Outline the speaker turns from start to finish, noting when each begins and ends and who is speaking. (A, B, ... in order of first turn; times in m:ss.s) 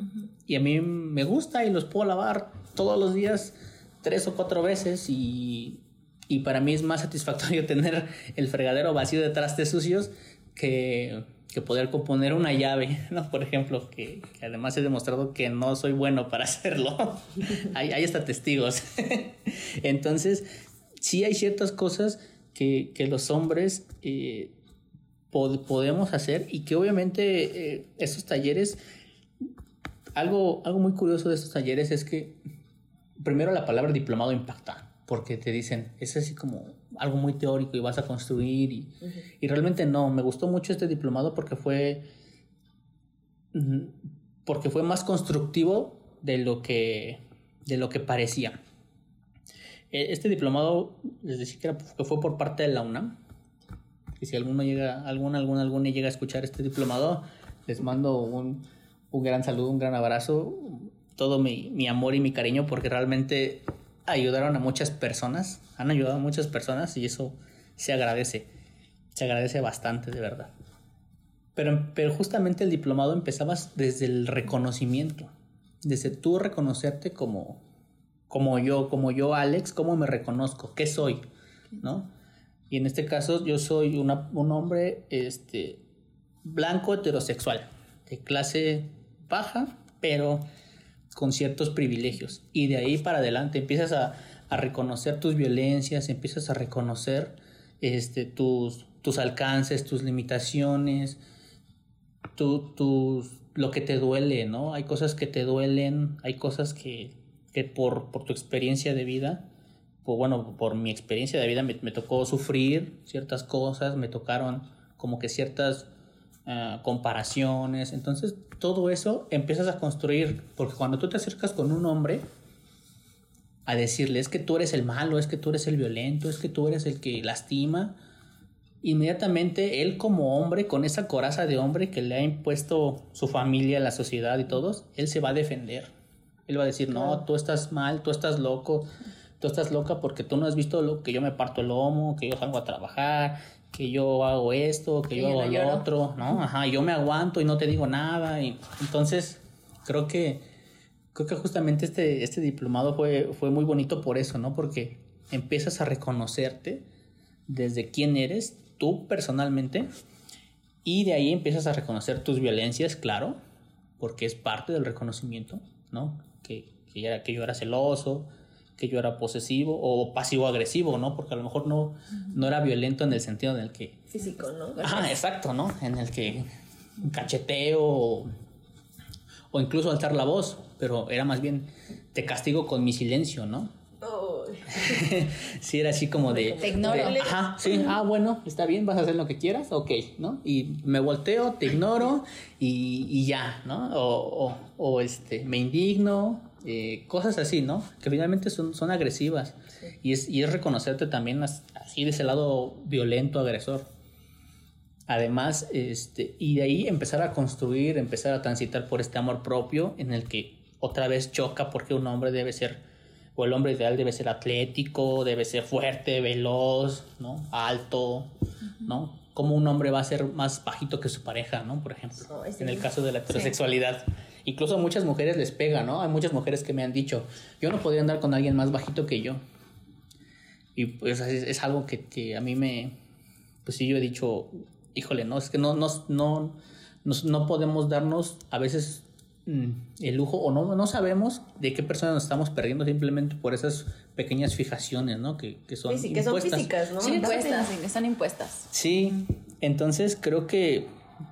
0:00.4-0:20.4 A
0:21.0-0:24.5 A
0:25.3-0:28.8 A
0:30.2-0:32.4 A
0:33.2-0:42.0 A
0:43.5-0:48.6 A
0:49.9-0:53.2 A
0:54.2-1:08.5 A
1:09.1-1:10.5 A
1:11.5-1:15.3 A
1:15.8-1:17.6 A
1:18.3-1:21.2 A
1:21.8-1:22.1 A
1:22.7-1:25.8 A
1:26.4-1:30.4 A
1:31.1-1:41.2 A
1:42.4-1:49.4 A
1:50.0-1:55.9 A
1:56.4-2:02.2 A
2:03.6-2:08.0 A
2:08.8-2:15.9 A
2:16.5-2:30.4 A
2:25.2-2:25.8 B
2:31.1-2:36.8 A
2:37.5-2:39.9 A
2:40.8-2:43.4 A
2:44.0-2:54.0 A
2:54.1-2:55.1 C
2:54.8-2:56.4 A
2:57.0-2:58.3 A
2:59.5-3:03.7 A
3:04.0-3:05.1 C
3:04.7-3:23.9 A
3:06.3-3:07.4 C
3:06.6-3:07.2 B
3:25.1-3:32.8 A
3:33.4-3:38.3 A
3:38.8-3:49.4 A
3:42.3-3:42.9 C
3:50.8-3:52.9 A
3:53.6-4:06.7 A
4:05.8-4:07.7 C
4:07.0-4:08.7 B
4:08.7-4:10.9 A